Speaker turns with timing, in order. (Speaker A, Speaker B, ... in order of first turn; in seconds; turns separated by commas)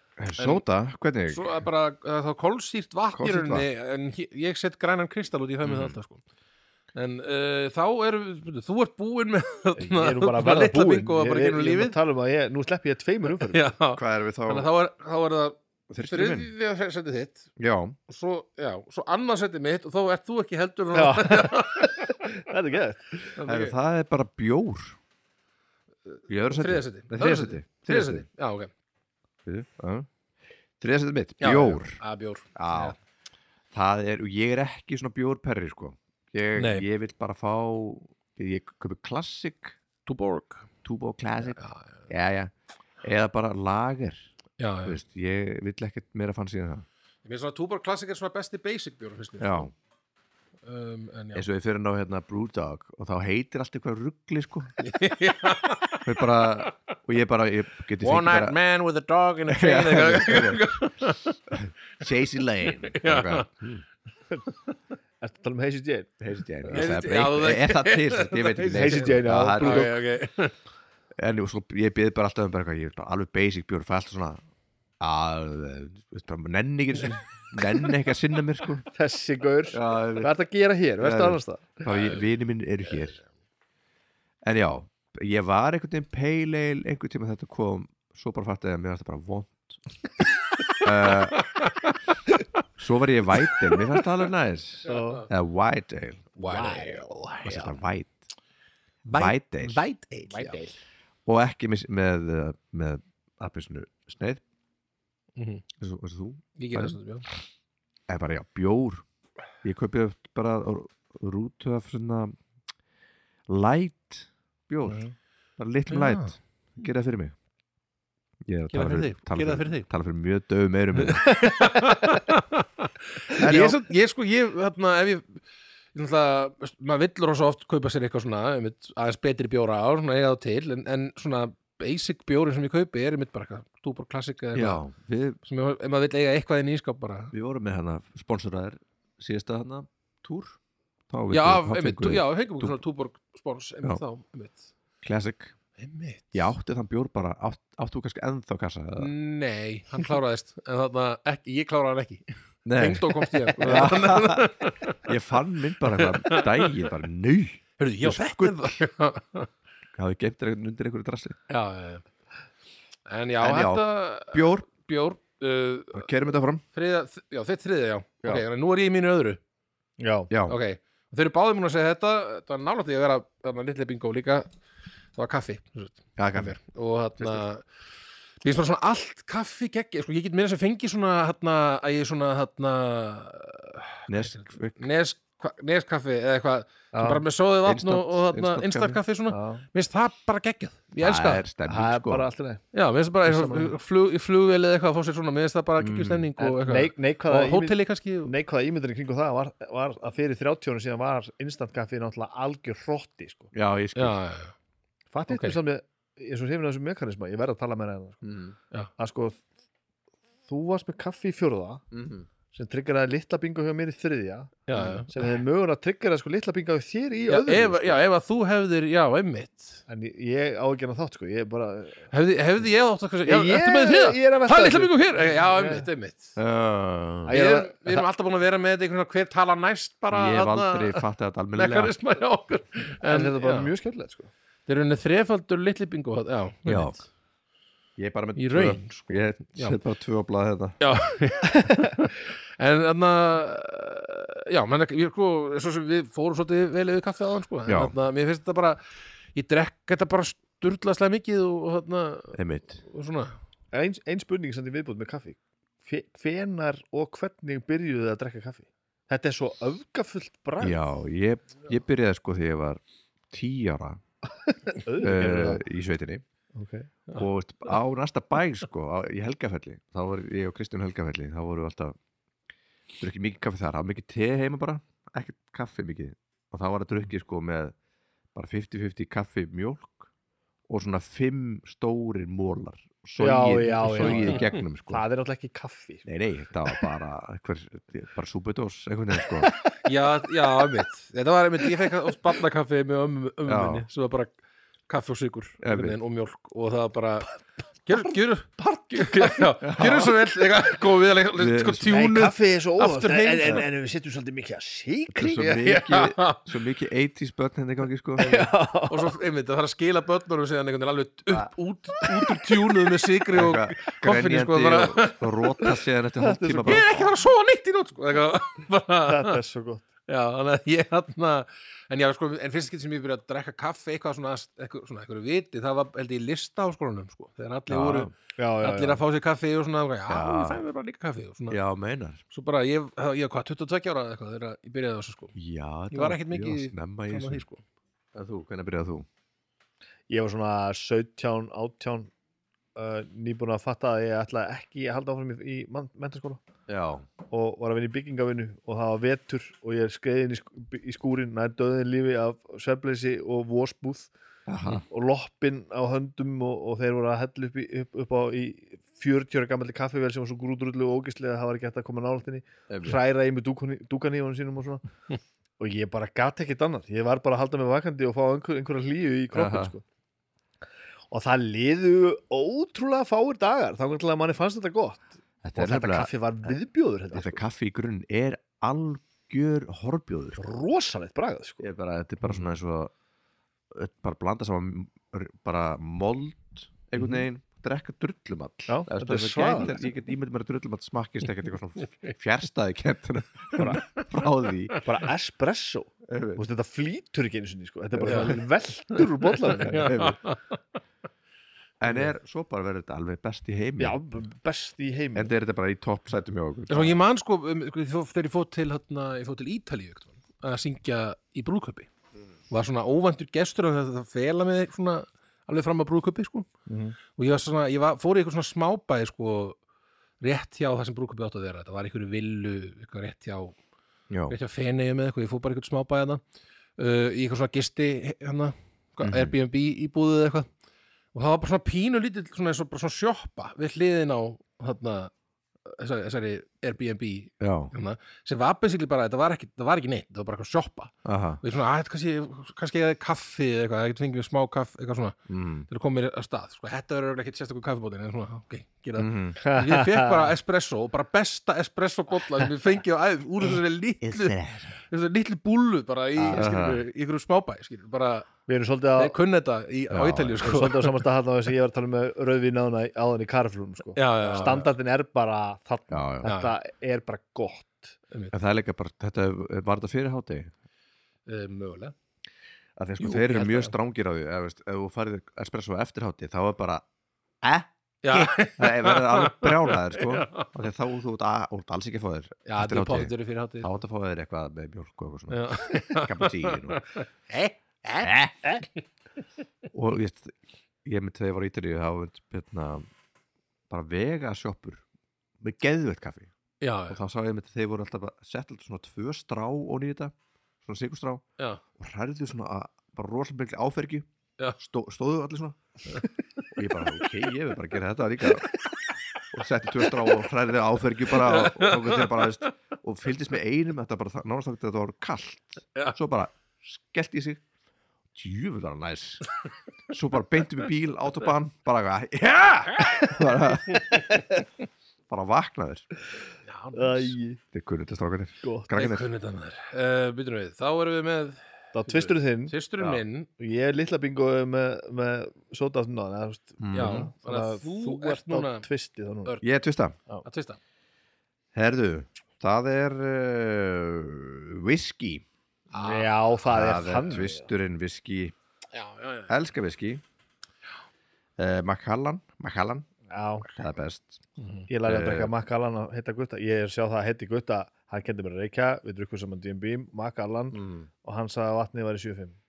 Speaker A: 0.2-1.6, Speaker B: 0.4-0.6, Speaker B: 1.3-6.2, Speaker A: 3.1-3.6, Speaker A: 5.6-6.0, Speaker B: 6.9-12.0, Speaker C: 9.8-13.6, Speaker B: 13.4-17.5, Speaker A: 13.9-14.7, Speaker A: 15.9-16.5, Speaker A: 17.6-17.9, Speaker B: 18.1-22.3, Speaker C: 20.9-23.3, Speaker B: 23.4-23.7, Speaker A: 23.4-25.0, Speaker B: 26.1-28.7, Speaker A: 26.3-28.2, Speaker A: 29.4-30.1, Speaker A: 30.8-32.0, Speaker B: 31.4-33.0, Speaker A: 32.5-33.0, Speaker A: 33.7-39.8, Speaker B: 36.5-36.9, Speaker B: 40.0-40.7, Speaker A: 40.8-44.3, Speaker B: 41.4-42.1, Speaker B: 44.6-45.0, Speaker A: 44.9-46.9, Speaker B: 47.2-49.7, Speaker A: 49.4-49.7, Speaker B: 50.6-51.5, Speaker A: 51.3-54.7, Speaker B: 54.8-56.4, Speaker A: 56.0-58.6, Speaker B: 58.0-61.4, Speaker A: 59.5-60.9, Speaker A: 61.5-63.8, Speaker B: 62.8-63.5, Speaker C: 65.2-66.1, Speaker A: 66.2-69.9, Speaker B: 66.7-70.5, Speaker C: 68.7-69.9, Speaker A: 71.2-74.4, Speaker A: 75.0-78.8, Speaker C: 78.9-81.8, Speaker A: 79.7-80.3, Speaker A: 81.0-83.2, Speaker B: 81.9-82.2, Speaker A: 84.4-89.8, Speaker B: 90.7-91.9, Speaker A: 90.8-91.5, Speaker A: 92.8-96.4, Speaker B: 93.5-93.8, Speaker C: 94.8-95.2, Speaker B: 94.9-95.2, Speaker B: 96.4-97.8, Speaker C: 96.5-97.1, Speaker A: 97.4-98.2, Speaker B: 99.1-100.6, Speaker A: 99.1-99.8, Speaker C: 100.3-100.7, Speaker A: 101.2-104.4, Speaker B: 105.3-105.6, Speaker A: 105.8-107.0, Speaker B: 106.6-107.3, Speaker A: 108.1-109.0, Speaker A: 109.6-112.3, Speaker A: 113.5-115.0, Speaker C: 114.9-115.1, Speaker A: 115.6-117.3, Speaker B: 115.9-116.3, Speaker A: 118.5-121.3, Speaker B: 118.7-119.9, Speaker B: 121.0-125.4, Speaker A: 123.4-123.8, Speaker B: 125.9-134.8, Speaker A: 134.5-135.4, Speaker B: 135.4-137.3, Speaker A: 137.3-140.6, Speaker A: 141.1-142.8, Speaker B: 141.3-144.7, Speaker A: 145.0-145.5, Speaker B: 145.8-146.5, Speaker A: 146.3-149.1, Speaker B: 149.0-152.2, Speaker A: 152.6-158.8, Speaker B: 152.7-155.1, Speaker B: 155.9-156.9, Speaker B: 157.8-159.5, Speaker A: 159.9-161.4, Speaker B: 161.5-162.0, Speaker B: 163.1-166.1, Speaker A: 163.4-164.7, Speaker A: 165.9-166.6, Speaker B: 166.7-169.4, Speaker C: 170.0-170.3, Speaker A: 170.3-170.6, Speaker B: 170.5-174.5, Speaker B: 175.1-177.7, Speaker A: 176.2-176.6, Speaker A: 177.2-177.4, Speaker B: 178.4-191.4, Speaker A: 184.1-184.8, Speaker C: 186.9-187.2, Speaker A: 187.6-189.0, Speaker C: 189.3-189.7, Speaker A: 191.0-192.3, Speaker C: 191.7-192.6, Speaker B: 192.7-198.3, Speaker C: 193.2-193.7, Speaker A: 195.8-196.3, Speaker C: 196.4-203.5, Speaker A: 203.5-204.2, Speaker B: 203.9-204.5, Speaker C: 205.1-208.2, Speaker B: 205.3-205.6, Speaker A: 208.2-208.6, Speaker C: 209.0-209.4, Speaker C: 210.5-211.8, Speaker A: 211.9-212.3, Speaker C: 212.5-218.0, Speaker B: 214.7-215.1, Speaker B: 217.3-219.8, Speaker C: 219.9-222.1, Speaker B: 222.1-226.3, Speaker C: 223.2-225.9, Speaker A: 226.4-227.4, Speaker C: 227.3-227.8, Speaker B: 227.3-231.0, Speaker A: 230.1-231.9, Speaker B: 231.6-233.7, Speaker C: 233.0-234.3, Speaker B: 234.7-237.0, Speaker A: 236.7-237.0, Speaker A: 238.0-240.8, Speaker B: 238.3-239.8, Speaker B: 240.8-248.8, Speaker A: 247.7-247.9, Speaker B: 249.3-253.3, Speaker A: 252.3-252.8, Speaker C: 253.7-260.8, Speaker A: 260.6-264.0, Speaker C: 264.5-265.6, Speaker A: 265.0-266.2, Speaker C: 266.5-266.9, Speaker A: 267.1-272.0, Speaker A: 273.0-277.7, Speaker A: 278.3-280.1, Speaker A: 280.7-285.0, Speaker C: 283.2-286.1, Speaker B: 283.8-284.6, Speaker A: 286.1-289.5, Speaker B: 289.8-294.3, Speaker A: 293.4-293.9, Speaker B: 294.9-303.6, Speaker A: 295.6-296.0, Speaker A: 299.6-300.1, Speaker A: 301.4-302.1, Speaker C: 301.9-305.6, Speaker A: 305.1-308.3, Speaker B: 305.4-306.5, Speaker C: 308.2-309.1, Speaker B: 308.2-315.7, Speaker A: 312.0-312.6, Speaker A: 313.3-317.0, Speaker C: 316.2-317.0, Speaker B: 316.6-319.4, Speaker C: 319.0-319.8, Speaker B: 320.1-331.6, Speaker A: 327.7-328.1, Speaker C: 328.4-329.0, Speaker A: 330.1-330.6, Speaker A: 331.5-332.2, Speaker B: 332.3-335.3, Speaker A: 335.3-337.4, Speaker B: 335.9-337.6, Speaker A: 338.1-339.1, Speaker C: 340.1-342.1, Speaker C: 342.7-346.4, Speaker A: 346.7-347.1, Speaker C: 347.3-354.1, Speaker A: 354.5-354.8, Speaker C: 354.8-364.8, Speaker A: 362.7-363.0, Speaker C: 365.6-369.8, Speaker A: 369.3-369.7, Speaker C: 371.1-377.4, Speaker A: 375.4-376.1, Speaker A: 377.1-380.4, Speaker C: 380.4-381.6, Speaker A: 381.6-382.9, Speaker A: 383.7-394.8, Speaker C: 388.7-389.9, Speaker C: 393.6-393.8, Speaker C: 394.8-400.0, Speaker A: 396.1-396.4, Speaker A: 398.0-398.4, Speaker B: 398.1-398.4, Speaker B: 399.5-400.6, Speaker A: 399.6-400.2, Speaker A: 401.8-404.0, Speaker C: 403.8-405.3, Speaker A: 405.1-407.0, Speaker B: 406.7-411.9, Speaker B: 412.5-416.5, Speaker C: 416.7-416.9, Speaker B: 417.1-419.6, Speaker B: 420.2-423.6, Speaker A: 424.1-424.4, Speaker B: 424.3-426.2, Speaker B: 426.8-430.5, Speaker A: 429.0-429.3, Speaker B: 431.1-435.1, Speaker B: 435.6-458.3, Speaker A: 437.4-437.7, Speaker A: 441.0-441.4, Speaker A: 445.3-445.7, Speaker A: 449.0-449.4, Speaker C: 449.4-450.3, Speaker A: 454.0-454.8, Speaker C: 456.2-456.5, Speaker A: 456.3-456.8, Speaker C: 458.5-459.2, Speaker B: 458.9-461.0, Speaker A: 459.9-460.4, Speaker C: 460.4-468.0, Speaker B: 463.9-464.7, Speaker A: 465.9-466.3, Speaker B: 466.2-466.6, Speaker A: 468.3-470.5, Speaker B: 471.3-471.9, Speaker A: 472.8-476.8, Speaker B: 473.0-473.7, Speaker A: 477.4-486.8, Speaker B: 478.0-480.5, Speaker B: 482.4-483.7, Speaker B: 485.3-488.1, Speaker A: 488.0-488.4, Speaker A: 489.7-492.9, Speaker A: 493.7-494.8, Speaker A: 495.4-496.3, Speaker B: 496.6-497.0, Speaker A: 496.9-500.1, Speaker A: 500.6-501.2, Speaker A: 501.8-504.1, Speaker A: 504.6-505.6, Speaker B: 505.9-506.4, Speaker A: 506.5-508.5, Speaker A: 509.3-517.4, Speaker B: 511.1-512.5, Speaker A: 518.1-519.2, Speaker A: 519.9-524.1, Speaker B: 523.7-524.0, Speaker A: 525.1-525.9, Speaker B: 526.5-527.1, Speaker C: 526.7-527.4, Speaker A: 527.5-529.1, Speaker C: 528.4-528.7, Speaker B: 528.7-533.3, Speaker C: 531.7-532.5, Speaker C: 533.4-539.3, Speaker A: 536.6-537.1, Speaker B: 536.7-538.7, Speaker A: 539.4-540.0, Speaker B: 540.2-540.6, Speaker A: 541.5-545.2, Speaker B: 545.7-546.1, Speaker C: 545.8-547.5, Speaker A: 546.5-548.3, Speaker B: 548.7-549.3, Speaker A: 549.3-550.0, Speaker A: 551.4-552.9, Speaker C: 553.1-553.5, Speaker A: 553.4-554.2, Speaker B: 554.4-554.7, Speaker C: 554.7-562.4, Speaker A: 554.8-555.3, Speaker A: 560.5-560.9